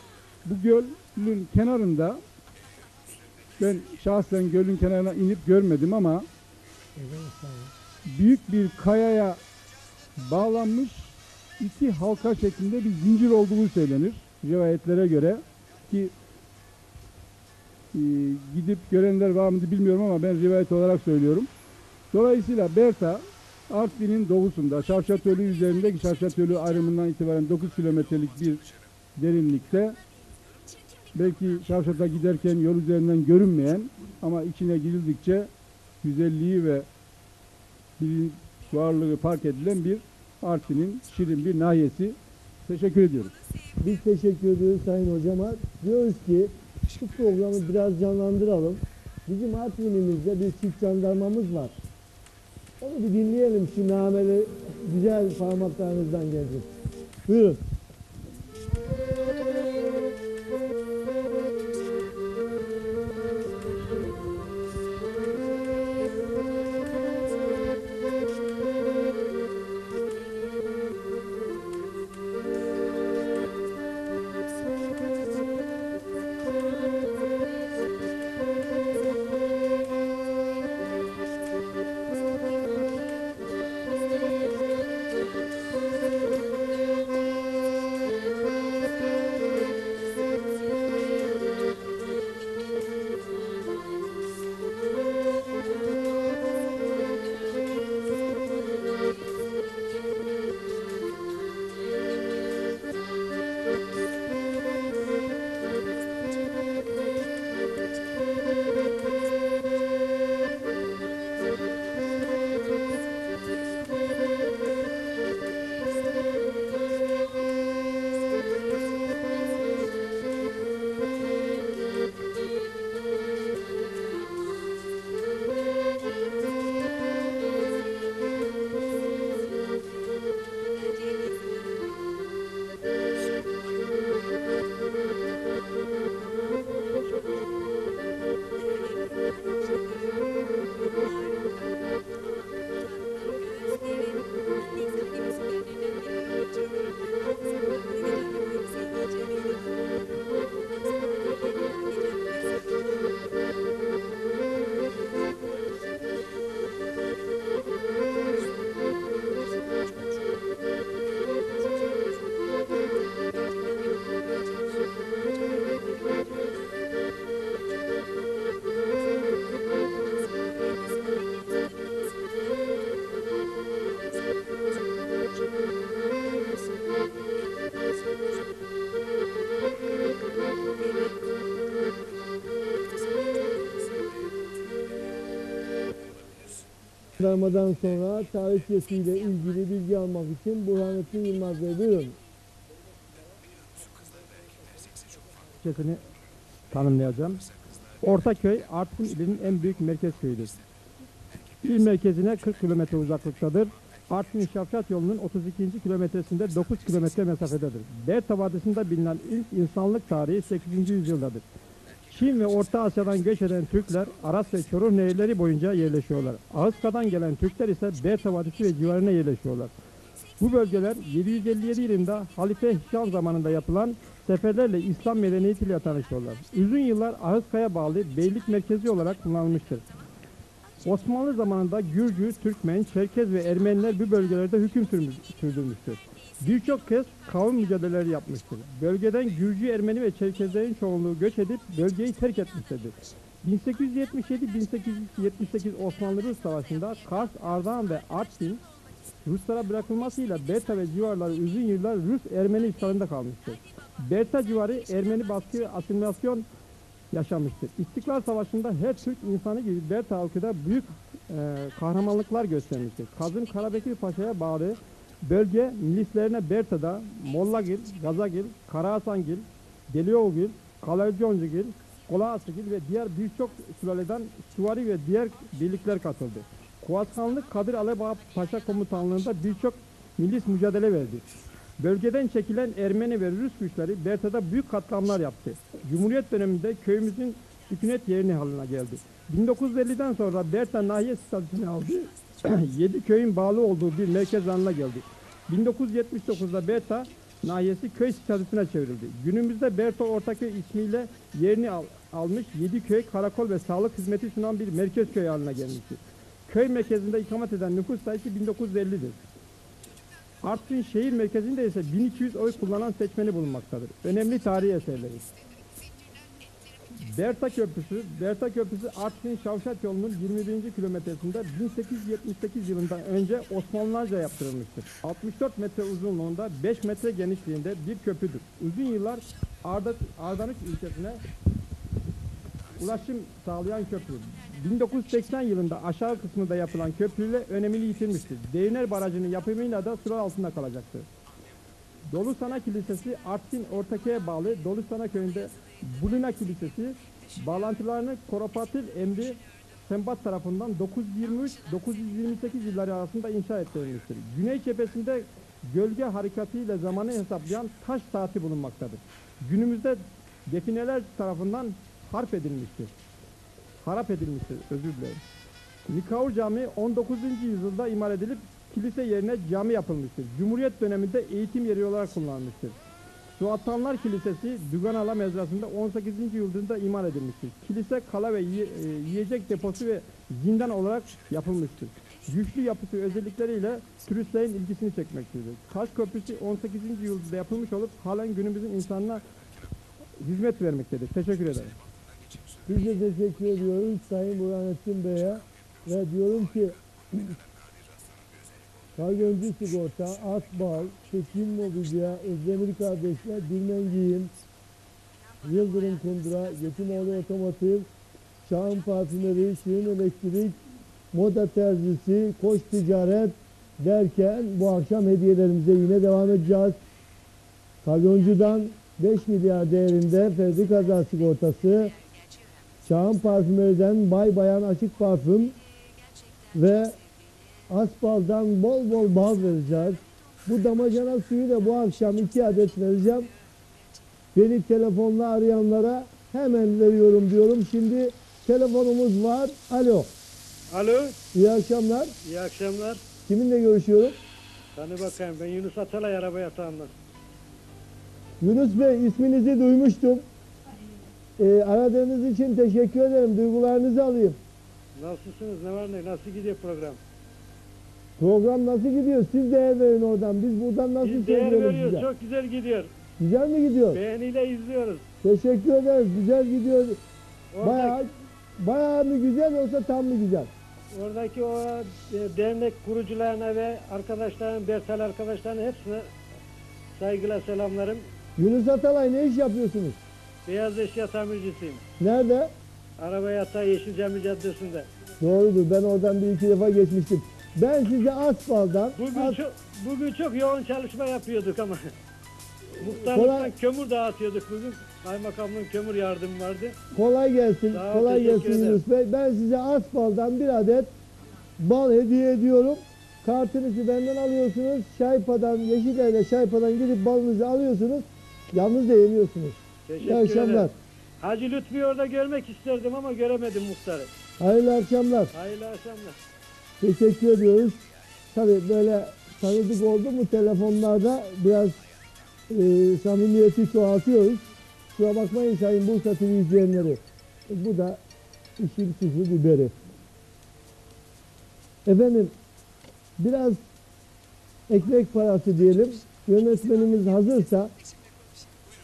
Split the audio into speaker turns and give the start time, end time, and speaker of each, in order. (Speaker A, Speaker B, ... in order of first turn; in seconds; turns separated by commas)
Speaker A: 0.5-2.2, Speaker A: 3.6-6.3, Speaker B: 7.0-7.7, Speaker A: 8.1-9.4, Speaker A: 10.2-16.1, Speaker A: 17.9-21.5, Speaker A: 22.1-28.6, Speaker A: 29.2-30.0, Speaker A: 31.1-35.5, Speaker A: 36.0-36.9, Speaker A: 38.0-42.2, Speaker A: 42.7-43.3, Speaker B: 43.8-51.8, Speaker B: 52.8-56.7, Speaker B: 57.3-57.6, Speaker B: 187.2-192.2, Speaker C: 195.6-196.0, Speaker C: 196.7-197.4, Speaker C: 198.0-200.6, Speaker C: 201.6-211.4, Speaker C: 212.1-219.7, Speaker C: 220.4-229.9, Speaker C: 230.8-248.6, Speaker C: 249.2-256.5, Speaker C: 257.1-281.3, Speaker C: 281.8-309.2, Speaker C: 310.4-315.3, Speaker C: 317.1-331.2, Speaker C: 332.8-341.1, Speaker C: 342.1-362.9, Speaker C: 363.8-365.2, Speaker C: 365.9-372.8, Speaker C: 373.4-389.2, Speaker C: 390.2-391.8, Speaker B: 392.7-397.4, Speaker B: 399.0-404.3, Speaker B: 405.4-407.9, Speaker B: 408.4-410.6, Speaker B: 411.1-416.8, Speaker B: 417.8-421.9, Speaker B: 422.8-425.6, Speaker B: 426.5-427.0, Speaker B: 427.7-433.3, Speaker B: 434.3-440.1, Speaker D: 440.7-441.2, Speaker B: 441.3-442.1, Speaker D: 442.2-443.0, Speaker B: 443.3-444.2, Speaker D: 444.8-446.9, Speaker B: 448.4-450.2, Speaker B: 451.4-454.4, Speaker D: 455.0-457.0, Speaker B: 458.2-462.1, Speaker D: 461.0-462.9, Speaker B: 463.2-464.0, Speaker D: 463.9-465.0, Speaker B: 465.2-467.0, Speaker D: 467.5-468.0, Speaker B: 467.6-470.5, Speaker D: 470.9-476.1, Speaker D: 477.0-478.0, Speaker B: 478.4-480.0, Speaker D: 480.5-481.8, Speaker B: 482.0-482.5, Speaker D: 483.0-484.9, Speaker B: 485.2-489.4, Speaker D: 489.0-491.9, Speaker D: 492.8-496.8, Speaker B: 492.9-493.5, Speaker B: 496.9-500.9, Speaker D: 497.7-498.8, Speaker B: 501.6-510.7, Speaker D: 509.9-514.1, Speaker B: 514.4-515.3, Speaker D: 515.3-516.2, Speaker B: 516.8-517.8, Speaker B: 518.3-521.8, Speaker B: 522.5-528.0, Speaker B: 528.6-529.7, Speaker B: 531.9-532.3, Speaker B: 533.2-533.6, Speaker B: 534.7-537.7